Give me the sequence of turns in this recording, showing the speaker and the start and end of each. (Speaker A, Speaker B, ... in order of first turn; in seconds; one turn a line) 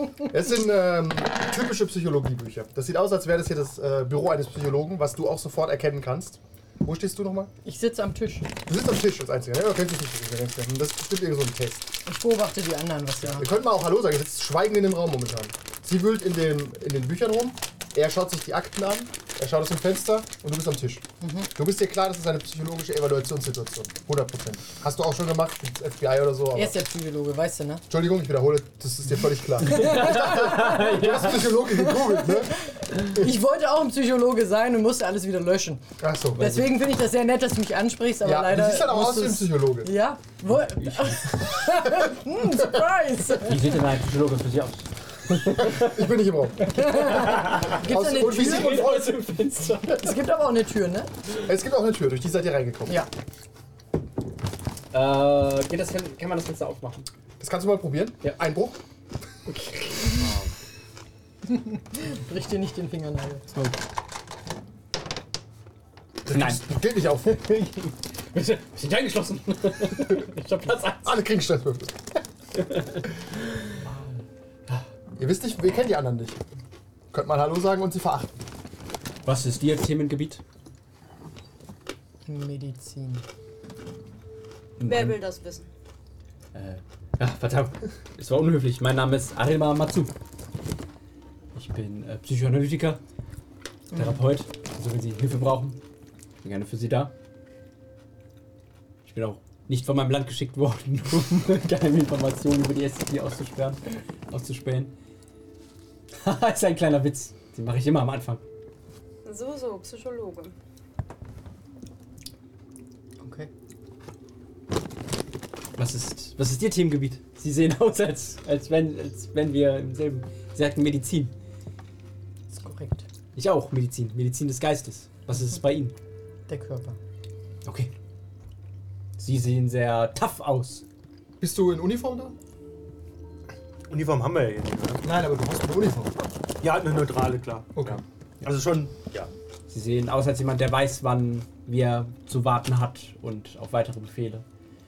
Speaker A: 0.1-7.5
Speaker B: 7.7-8.6
Speaker A: 8.7-11.9
Speaker B: 12.1-13.5
Speaker A: 13.2-26.8
Speaker B: 21.2-21.5
Speaker B: 26.6-27.8
Speaker A: 27.9-33.4
Speaker C: 29.6-31.4
Speaker B: 29.8-35.9
Speaker A: 36.0-36.6
Speaker C: 36.4-36.7
Speaker B: 36.4-43.7
Speaker A: 38.2-40.0
Speaker C: 40.8-41.3
Speaker C: 43.4-45.9
Speaker A: 45.4-49.2
Speaker B: 46.7-49.0
Speaker C: 46.9-49.9
Speaker B: 49.8-51.1
Speaker A: 51.4-53.1
Speaker C: 54.9-57.1
Speaker A: 57.4-58.8
Speaker C: 59.5-60.5
Speaker B: 61.5-63.5
Speaker C: 63.5-63.8
Speaker A: 66.2-67.4
Speaker C: 66.3-66.7
Speaker C: 67.2-71.2
Speaker A: 71.0-72.2
Speaker C: 72.6-73.1
Speaker A: 75.2-76.4
Speaker A: 77.1-78.4
Speaker C: 79.2-80.4
Speaker B: 82.2-83.2
Speaker C: 84.8-85.2
Speaker D: 84.8-85.7
Speaker C: 86.5-90.1
Speaker C: 91.5-93.0
Speaker B: 93.9-94.2
Speaker C: 93.9-95.8
Speaker C: 96.4-97.1
Speaker C: 99.0-104.9
Speaker C: 106.1-108.4
Speaker D: 109.2-110.5
Speaker B: 113.2-113.5
Speaker C: 115.8-121.3
Speaker B: 122.5-123.1
Speaker C: 123.3-125.9
Speaker B: 126.5-127.0
Speaker C: 127.7-127.9
Speaker C: 129.2-130.8
Speaker A: 131.4-132.3
Speaker E: 133.9-135.1
Speaker A: 135.0-136.1
Speaker E: 136.6-139.3
Speaker A: 137.8-138.0
Speaker C: 139.7-144.4